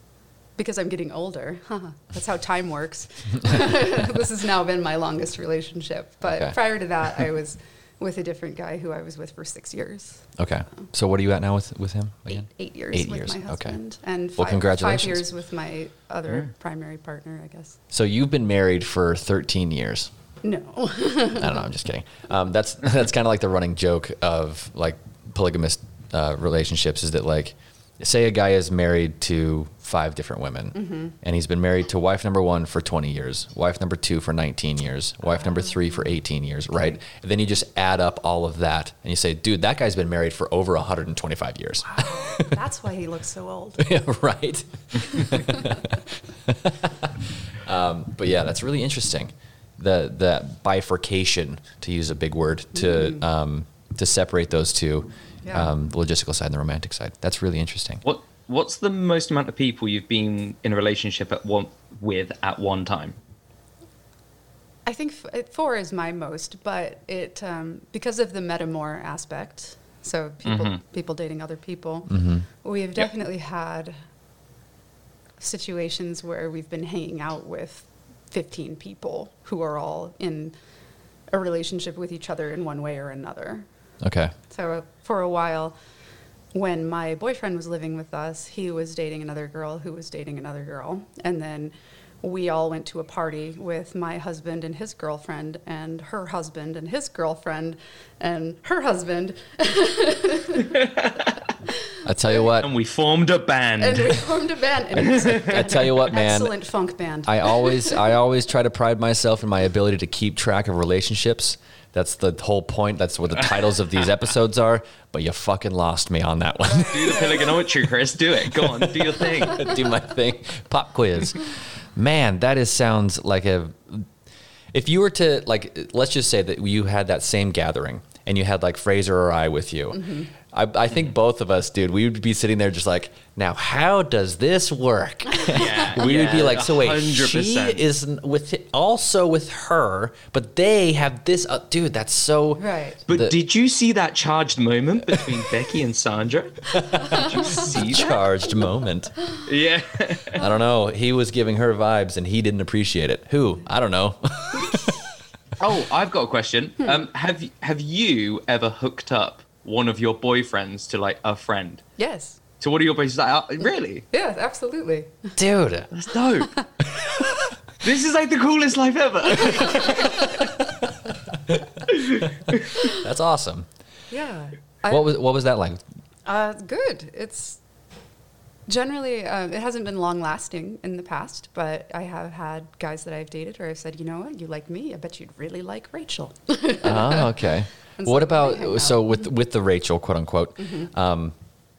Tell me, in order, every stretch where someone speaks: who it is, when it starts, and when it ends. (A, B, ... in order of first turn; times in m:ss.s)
0:00.6-0:10.3 A
0:06.2-0:06.6 B
0:10.4-0:13.8 B
0:12.3-0:17.8 A
0:14.4-0:15.2 B
0:17.9-0:20.1 B
0:20.4-0:21.6 A
0:21.4-0:42.6 B
0:30.8-0:31.1 A
0:41.8-0:43.9 A
0:43.8-0:58.0 B
0:45.1-0:45.7 A
0:52.8-0:53.2 A
0:55.4-0:55.7 A
0:58.0-1:03.2 C
1:04.9-1:14.0 A
1:10.4-1:10.8 C
1:12.1-1:12.4 B
1:15.4-1:20.6 A
1:21.3-1:23.7 A
1:24.0-1:24.3 B
1:24.5-1:25.8 A
1:26.5-1:40.8 A
1:40.7-1:41.4 C
1:42.0-1:42.7 B
1:42.5-1:44.2 C
1:43.8-1:48.0 A
1:45.0-1:46.6 B
1:45.0-1:45.7 C
1:47.3-1:57.3 B
1:56.7-1:57.5 A
1:56.8-1:59.7 C
1:58.6-2:04.1 B
2:04.7-2:23.4 B
2:09.9-2:10.3 A
2:15.4-2:16.0 A
2:15.5-2:17.8 C
2:22.6-2:23.1 A
2:23.1-2:28.1 C
2:26.7-2:29.1 B
2:27.0-2:27.4 A
2:29.4-2:30.4 C
2:30.4-2:35.0 B
2:35.6-2:41.8 C
2:42.0-2:42.4 A
2:42.6-2:44.1 C
2:44.1-2:45.4 A
2:45.4-2:45.9 B
2:45.9-2:46.5 C
2:47.8-2:50.5 C
2:49.8-2:50.2 A
2:51.9-2:52.6 C
2:52.5-2:53.7 B
2:54.1-2:55.2 A
2:54.9-2:55.8 B
2:56.3-2:57.6 A
2:58.7-3:09.2 A
3:06.8-3:11.4 B